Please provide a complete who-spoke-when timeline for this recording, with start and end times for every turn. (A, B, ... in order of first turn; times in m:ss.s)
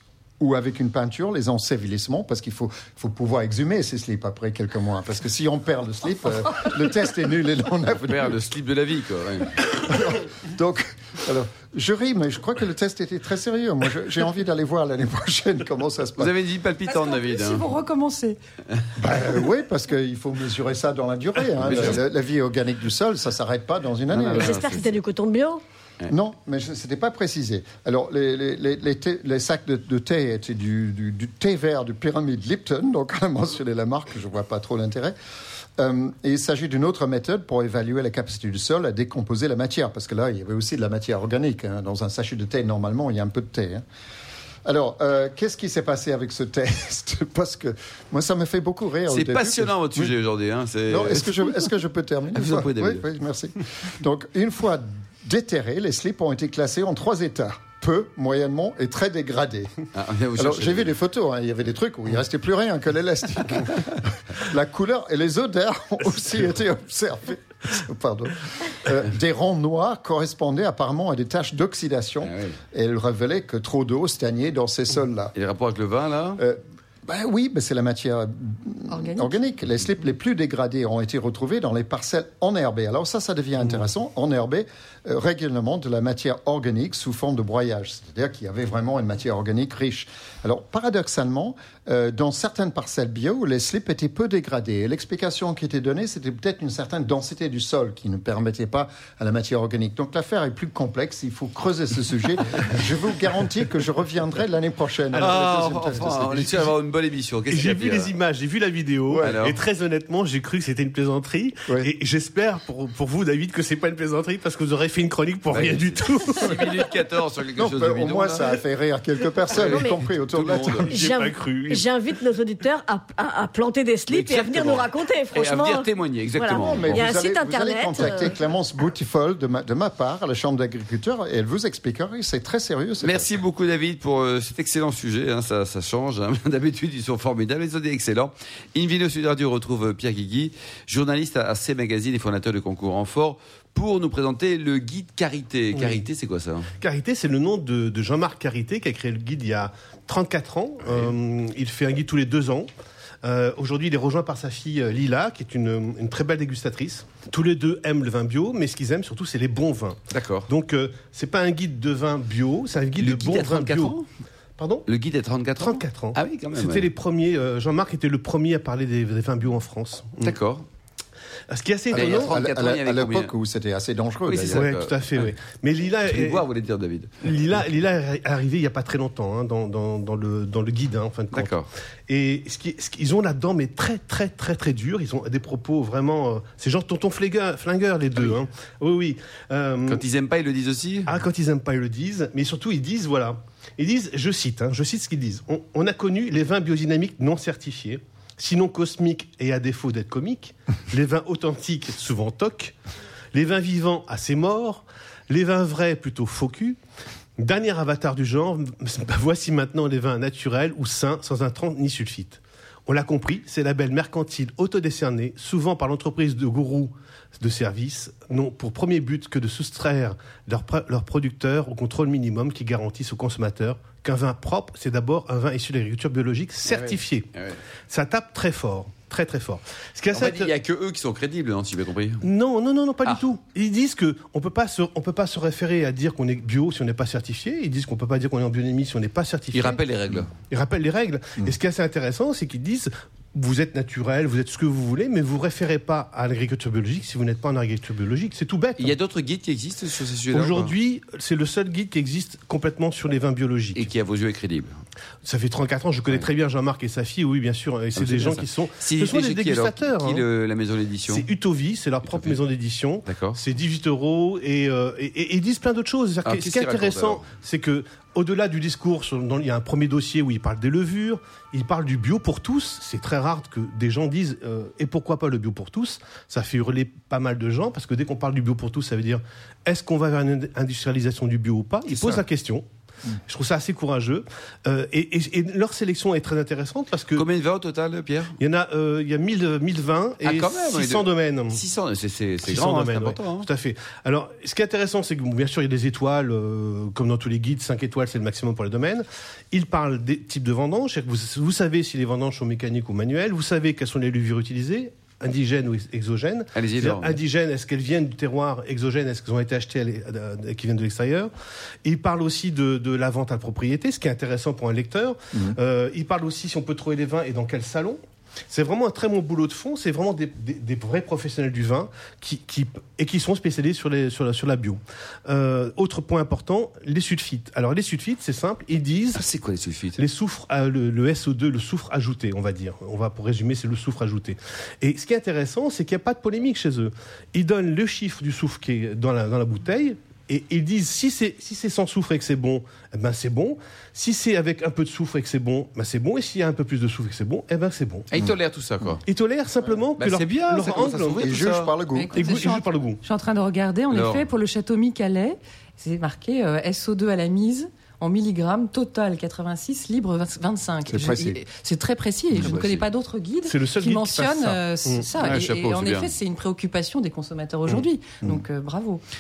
0:00.4-0:08.4 A
0:08.0-0:09.6 B
0:09.6-0:16.3 A
0:16.2-0:17.7 B
0:16.9-0:18.4 C
0:19.0-0:24.8 A
0:21.6-0:22.0 B
0:24.1-0:24.9 B
0:24.4-0:25.6 D
0:26.1-0:35.2 A
0:35.8-0:43.8 A
0:44.6-0:50.2 A
0:49.1-0:51.6 B
0:50.9-0:59.8 A
0:52.3-0:53.0 B
0:59.9-1:00.9 B
1:00.4-1:15.3 A
1:12.2-1:12.6 B
1:15.4-1:16.4 B
1:16.4-1:46.7 A
1:18.9-1:19.4 C
1:45.1-1:48.1 B
1:45.2-1:45.5 E
1:47.5-1:56.6 E
1:49.1-1:49.4 A
1:49.2-1:49.6 B
1:55.5-1:58.6 B
1:57.6-2:01.0 A
1:59.5-2:01.0 B
1:59.6-2:00.0 D
2:00.9-2:01.9 E
2:00.9-2:08.3 D
2:04.1-2:07.1 B
2:06.5-2:13.3 A
2:13.0-2:26.7 B
2:25.8-2:26.0 E
2:26.8-2:32.7 E
2:30.9-2:31.1 B
2:33.2-2:44.0 E
2:40.1-2:40.5 B
2:43.0-2:44.0 B
2:44.6-2:44.9 E
2:44.9-2:46.9 B
2:45.6-2:50.4 E
2:50.2-2:50.6 B
2:51.5-2:52.3 E
2:51.9-2:54.7 A
2:52.0-2:53.3 B
2:54.3-2:55.3 B
2:54.5-2:56.4 E
2:56.1-2:57.4 B
2:57.2-3:01.5 E
3:01.3-3:01.7 B
3:02.1-3:10.0 E
3:09.9-3:11.1 B
3:11.1-3:22.7 E
3:23.3-3:26.8 E
3:27.4-3:47.3 E
3:46.7-3:47.6 B
3:47.9-3:50.5 E
3:50.1-3:52.3 B
3:52.2-3:59.8 E
3:59.5-4:00.3 B
4:00.5-4:09.0 E
4:08.8-4:10.7 B
4:10.3-4:13.9 E
4:13.8-4:14.8 B
4:15.2-4:20.3 E
4:18.0-4:21.3 B
4:21.1-4:42.6 E
4:22.1-4:22.4 B
4:23.1-4:23.4 B
4:26.2-4:27.3 B
4:41.9-4:42.2 B
4:43.3-4:47.3 E
4:47.2-4:48.4 B
4:48.4-4:51.6 E
4:50.2-4:53.5 B
4:52.4-5:11.3 E
5:06.6-5:07.2 B
5:11.8-5:29.2 E
5:29.2-5:30.0 B
5:30.0-5:48.1 E
5:48.1-5:49.0 B
5:49.1-5:51.3 E
5:50.0-5:51.7 B
5:51.2-5:52.2 A
5:52.0-6:09.0 C
5:52.2-5:53.0 E
5:53.9-5:54.3 B
6:00.9-6:01.4 A
6:02.3-6:02.8 B
6:03.5-6:05.2 E
6:05.2-6:06.1 B